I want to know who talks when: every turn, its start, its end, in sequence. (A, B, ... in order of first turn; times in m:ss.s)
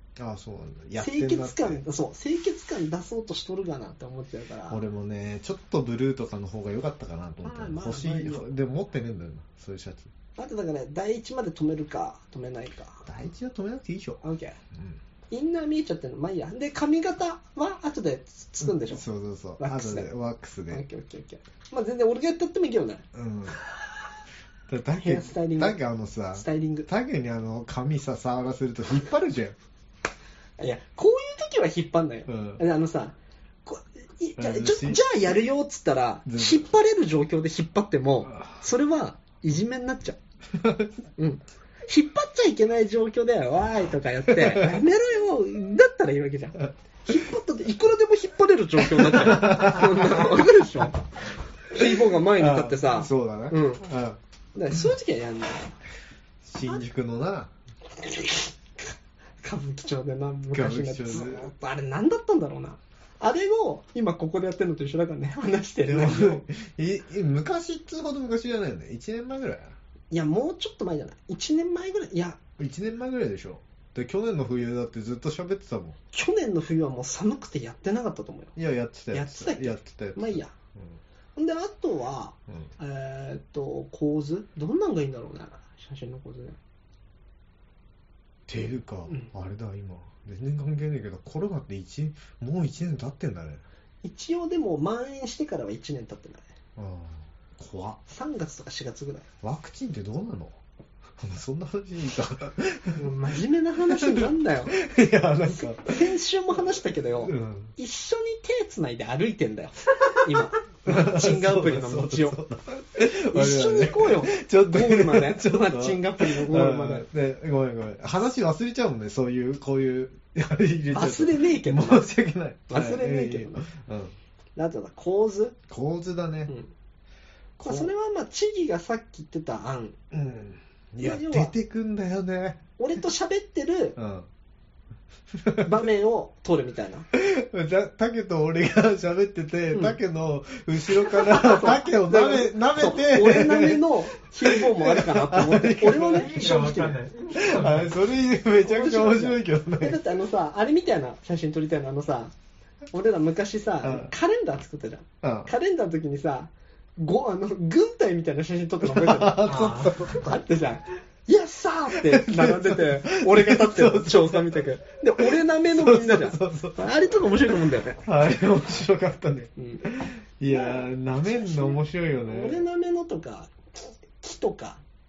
0:00.2-0:01.8 A
0:01.0-0:04.8 B
0:04.7-0:10.1 A
0:07.4-0:08.5 B
0:10.4-0:13.0 B
0:13.1-0:14.2 A
0:14.2-0:14.6 B
0:14.7-0:15.0 A
0:15.3-0:19.0 B
0:18.6-0:20.8 A
0:19.6-0:20.1 B
0:20.7-0:23.0 B
0:23.1-0:23.6 A
0:24.7-0:29.6 A
0:24.9-0:25.8 B
0:26.3-0:26.9 B
0:30.6-0:40.2 B
0:32.3-0:32.6 A
0:34.4-0:35.0 A
0:36.3-0:36.6 A
0:38.3-0:38.6 A
0:40.5-0:41.0 A
0:41.2-0:51.0 B
0:44.3-0:44.8 A
0:48.9-0:50.6 A
0:51.7-0:53.8 B
0:51.8-0:54.2 A
0:54.6-0:55.8 B
0:56.4-0:57.5 A
0:58.0-0:58.5 B
0:59.4-1:06.4 B
1:00.5-1:01.5 A
1:05.8-1:09.8 A
1:10.1-1:12.4 B
1:12.6-1:16.0 A
1:16.1-1:18.6 B
1:18.6-1:21.0 A
1:19.1-1:20.5 B
1:21.4-1:26.6 B
1:28.5-1:33.6 A
1:34.0-1:36.4 B
1:36.8-1:38.0 A
1:38.1-1:39.3 B
1:39.4-1:40.6 A
1:41.2-1:43.1 A
1:43.0-1:44.8 B
1:43.8-1:46.1 A
1:45.6-1:52.4 B
1:47.2-1:47.8 A
1:50.9-2:04.2 A
1:53.3-1:57.1 B
2:00.9-2:02.1 B
2:02.7-2:03.7 B
2:04.6-2:05.6 B
2:05.7-2:06.5 A
2:07.6-2:07.9 A
2:07.6-2:10.0 B
2:10.1-2:12.6 A
2:11.0-2:11.5 B
2:12.8-2:14.0 B
2:14.0-2:14.3 A
2:15.3-2:15.8 A
2:15.6-2:17.1 B
2:17.1-2:26.4 A
2:19.7-2:20.0 B
2:21.1-2:27.0 B
2:26.0-2:28.0 C
2:27.3-2:30.0 A
2:28.6-2:32.3 B
2:32.9-2:48.0 B
2:33.8-2:34.1 A
2:35.2-2:35.5 A
2:38.8-2:40.2 A
2:39.4-2:40.1 C
2:41.9-2:46.8 A
2:48.0-2:52.6 A
2:49.6-2:49.8 B
2:51.2-2:54.8 B